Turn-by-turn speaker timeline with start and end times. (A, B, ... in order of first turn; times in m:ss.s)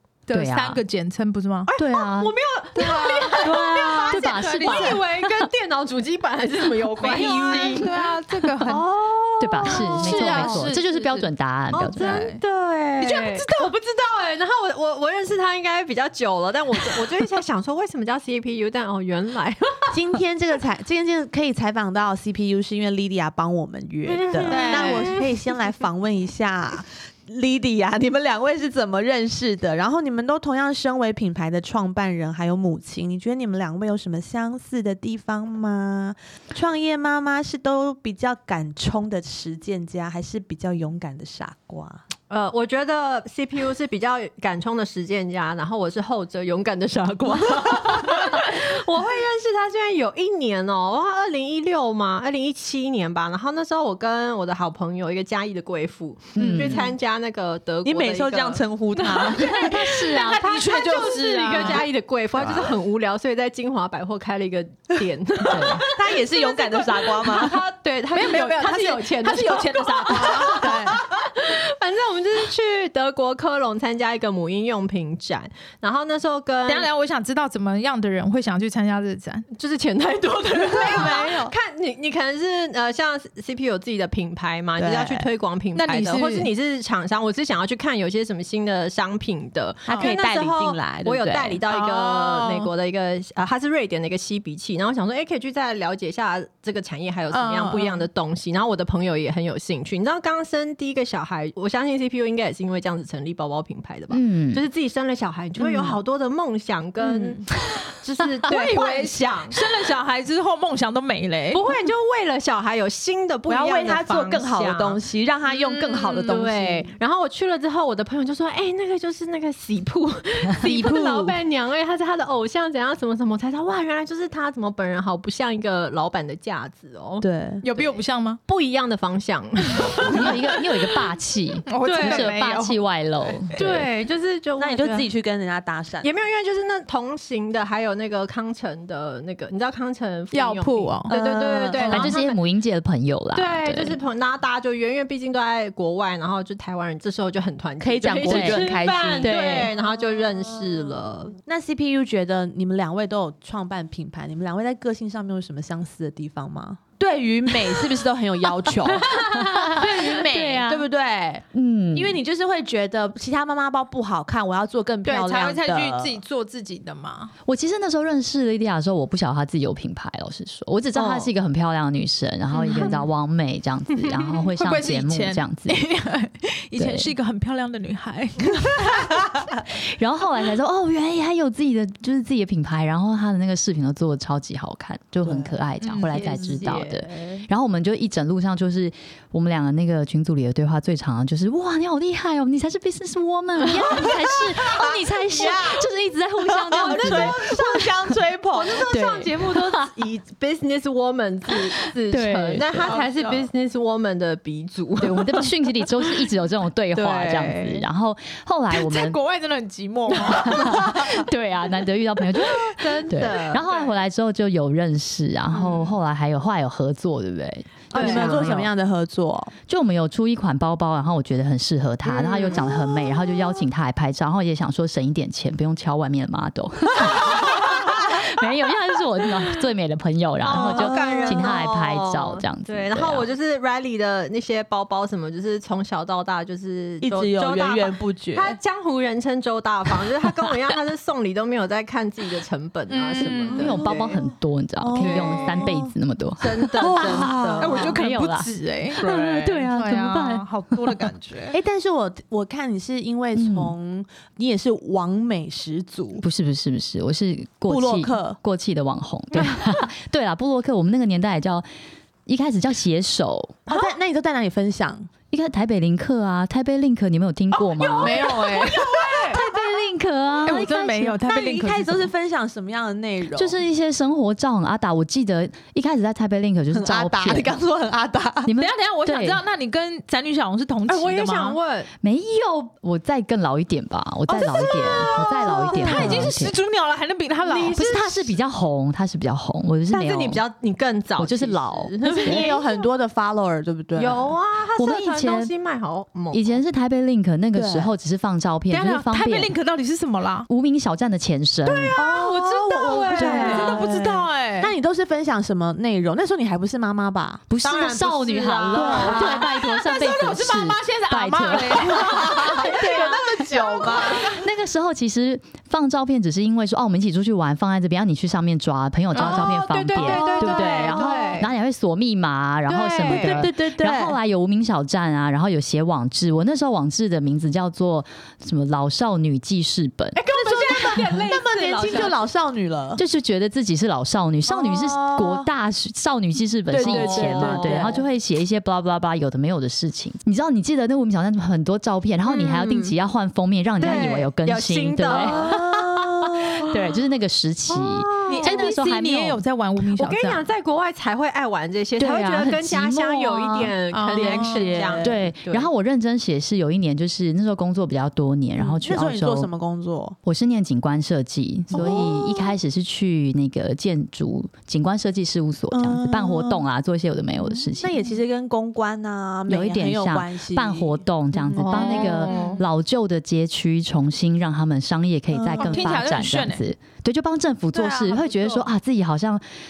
0:00.3-0:01.7 A
0:00.3-0:00.8 B
0:01.7-0:08.0 C
0:01.8-0:02.3 B
0:02.8-0:05.0 A
0:03.3-0:05.5 B
0:07.0-0:08.8 A
0:07.2-0:07.6 D
0:08.3-0:08.7 B
0:08.6-0:20.0 C
0:09.4-0:12.2 B
0:09.7-0:10.8 A
0:12.0-0:12.4 A
0:13.0-0:13.7 A
0:19.9-0:42.0 D
0:24.0-0:25.5 C
0:24.5-0:25.2 A
0:42.3-1:16.9 C
0:56.3-0:56.8 B
0:56.4-0:56.9 D
0:57.8-1:00.1 D
0:59.5-1:00.4 B
1:00.2-1:01.8 A
1:01.5-1:01.8 D
1:05.5-1:05.8 B
1:05.8-1:07.6 D
1:08.1-1:10.9 A
1:10.2-1:11.0 D
1:16.7-1:19.5 A
1:19.5-1:47.4 C
1:20.7-1:21.5 D
1:24.8-1:25.3 D
1:25.7-1:26.5 A
1:29.8-1:31.6 D
1:31.7-1:32.7 A
1:37.3-1:38.0 A
1:44.1-1:44.6 B
1:45.6-1:46.0 A
1:47.0-1:47.8 A
1:48.0-1:49.6 C
1:48.4-1:51.6 A
1:51.5-2:07.9 C
1:53.5-1:56.9 D
2:00.6-2:01.3 A
2:07.2-2:07.6 D
2:07.6-2:08.4 A
2:08.5-2:10.4 C
2:10.0-2:13.6 B
2:11.7-2:12.8 A
2:11.8-2:12.3 C
2:13.5-2:15.1 C
2:14.6-2:16.1 D
2:16.0-2:22.4 C
2:20.3-2:21.1 A
2:21.1-2:22.1 D
2:21.8-2:22.1 A
2:21.9-2:24.0 B
2:23.3-2:31.3 C
2:27.8-2:29.6 D
2:28.1-2:29.7 B
2:31.4-2:46.2 D
2:39.1-2:40.1 C
2:39.3-2:40.9 B
2:41.5-2:42.2 B
2:45.0-2:47.3 A
2:47.4-2:55.8 B
2:51.0-2:51.2 C
2:52.5-2:53.0 A
2:52.8-2:53.0 C
2:54.0-2:59.3 A
2:56.8-2:57.1 B
2:59.7-3:18.2 B
3:05.2-3:05.5 D
3:05.8-3:06.2 A
3:06.1-3:07.4 C
3:13.8-3:15.8 D
3:16.4-3:18.8 D
3:16.9-3:17.8 C
3:18.5-3:25.5 C
3:18.9-3:19.9 B
3:22.1-3:22.9 B
3:22.8-3:23.5 A
3:25.0-3:29.2 B
3:26.9-3:27.8 C
3:28.7-3:31.2 A
3:30.3-3:38.7 B
3:32.7-3:33.6 C
3:33.6-3:33.9 A
3:37.9-3:38.5 C
3:37.9-3:39.5 D
3:39.7-3:53.3 B
3:42.0-3:42.7 C
3:50.4-4:04.2 C
3:50.5-3:51.5 D
3:57.0-3:58.6 D
4:02.9-4:03.7 A
4:03.4-4:11.0 B
4:03.5-4:04.3 D
4:04.8-4:05.9 D
4:05.0-4:05.7 C
4:06.4-4:07.9 C
4:06.8-4:08.0 D
4:07.6-4:11.6 A
4:11.5-4:16.2 D
4:13.3-4:13.7 B
4:16.2-4:21.6 B
4:17.7-4:18.4 D
4:22.2-4:23.6 B
4:23.7-4:25.1 D
4:25.3-4:28.2 B
4:27.7-4:29.4 A
4:27.8-4:28.9 C
4:28.0-4:29.4 D
4:29.3-4:31.1 B
4:30.4-4:32.1 A
4:30.4-4:33.6 D
4:33.3-4:37.6 B
4:36.7-4:38.5 D
4:38.4-4:39.4 B
4:38.6-4:41.6 A
4:40.9-4:41.9 C
4:42.0-4:46.6 B
4:44.3-4:47.9 A
4:45.8-4:46.3 C
4:47.4-4:48.3 C
4:47.7-4:50.4 B
4:49.9-4:52.8 C
4:51.2-4:52.5 B
4:52.0-4:54.4 D
4:54.0-4:56.6 C
4:54.8-4:55.5 B
4:56.3-4:59.5 B
4:57.5-4:57.9 D
4:58.7-5:00.5 A
5:00.5-5:02.0 B
5:01.6-5:04.7 A
5:02.0-5:03.7 C
5:02.0-5:07.5 D
5:03.2-5:03.8 B
5:07.5-5:12.3 B
5:07.6-5:09.5 C
5:08.7-5:09.4 D
5:08.8-5:14.3 A
5:11.9-5:14.4 D
5:11.9-5:14.1 C
5:14.1-5:30.2 B
5:19.1-5:21.5 C
5:19.1-5:21.5 A
5:22.7-5:23.5 C
5:23.1-5:24.2 D
5:30.2-5:32.2 C
5:30.4-5:33.0 D
5:33.0-5:49.4 B
5:34.5-5:35.5 D
5:36.7-5:38.0 D
5:36.8-5:38.0 C
5:42.2-5:42.9 C
5:43.8-5:45.7 C
5:45.2-5:46.6 D
5:47.7-5:48.6 C
5:48.3-5:50.5 A
5:49.9-5:55.7 C
5:52.0-5:59.5 B
5:53.9-5:55.1 A
5:54.2-5:55.2 D
5:58.6-6:00.2 D
6:00.2-6:08.0 B
6:01.7-6:02.5 D
6:01.7-6:02.1 C
6:05.7-6:06.6 D
6:07.7-6:11.1 D
6:09.4-6:19.4 B
6:11.5-6:12.6 C
6:11.7-6:12.6 A
6:15.3-6:15.8 D
6:15.6-6:16.6 A
6:17.7-6:18.7 A